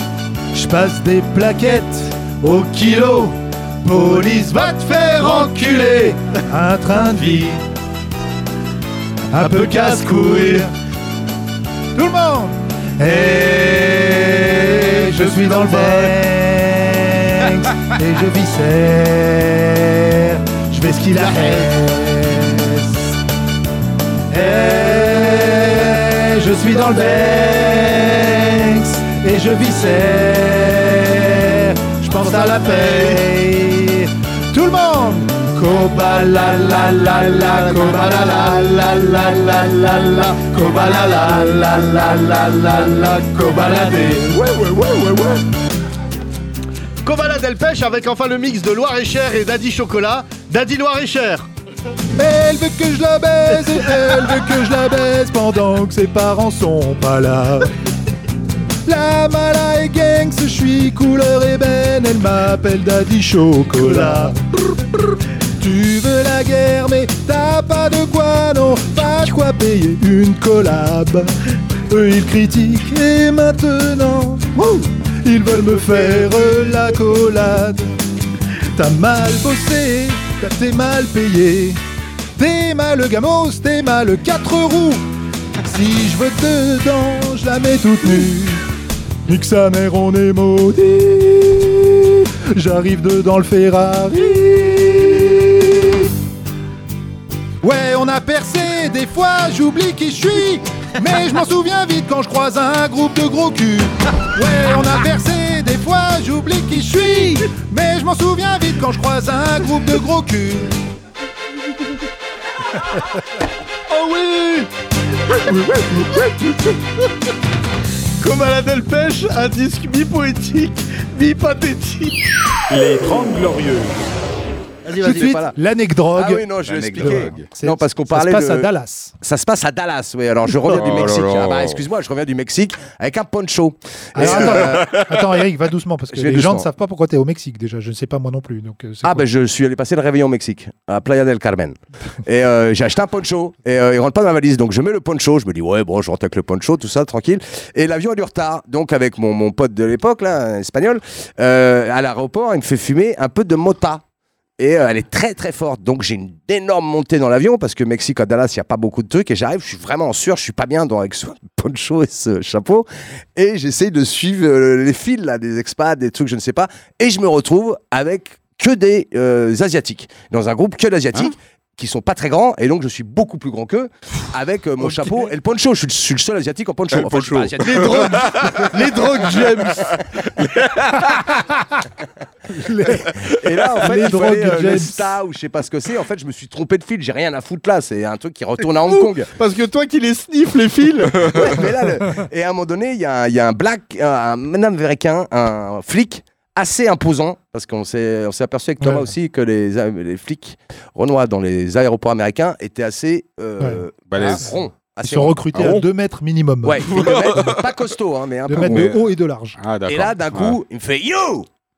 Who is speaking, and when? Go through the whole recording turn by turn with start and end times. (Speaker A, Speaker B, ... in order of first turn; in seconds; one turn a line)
Speaker A: 0.5-7.6
Speaker A: 9.3-10.7
Speaker B: 9.6-10.6
Speaker A: 11.9-23.2
Speaker B: 15.4-16.1
Speaker B: 21.2-21.6
Speaker A: 24.3-45.5
Speaker B: 32.4-33.2
Speaker B: 37.4-41.9
Speaker B: 47.0-51.5
Speaker A: 52.1-57.7
Speaker A: 58.8-64.4
Speaker B: 63.8-64.3
Speaker A: 65.6-71.3
Speaker A: 71.9-74.6
Speaker B: 74.5-74.9
Speaker A: 75.2-78.0
Speaker A: 78.7-81.8
Speaker A: 82.4-85.0
Speaker A: 85.6-88.6
Speaker A: 89.2-96.1
Speaker A: 97.6-110.7
Speaker B: 113.9-114.7
Speaker B: 115.3-116.8
Speaker B: 118.2-122.6
Speaker A: 122.7-124.0
Speaker B: 124.8-125.4
Speaker C: 124.9-125.5
Speaker A: 125.0-129.1
Speaker C: 126.1-128.7
Speaker D: 126.6-127.5
Speaker C: 129.2-134.9
Speaker D: 130.6-131.8
Speaker A: 134.2-139.2
Speaker D: 134.3-135.1
Speaker C: 136.1-136.7
Speaker C: 139.0-154.0
Speaker C: 154.6-178.7
Speaker D: 176.9-178.4
Speaker B: 177.6-180.0
Speaker A: 182.5-185.1
Speaker C: 183.0-189.3
Speaker B: 188.8-191.5
Speaker C: 191.2-205.8
Speaker A: 198.8-199.1
Speaker A: 203.6-204.4
Speaker D: 204.1-204.6
Speaker A: 205.0-206.9
Speaker C: 206.6-209.0
Speaker D: 206.9-207.7
Speaker A: 208.5-209.6
Speaker D: 208.6-208.9
Speaker D: 209.6-210.6
Speaker C: 209.8-211.5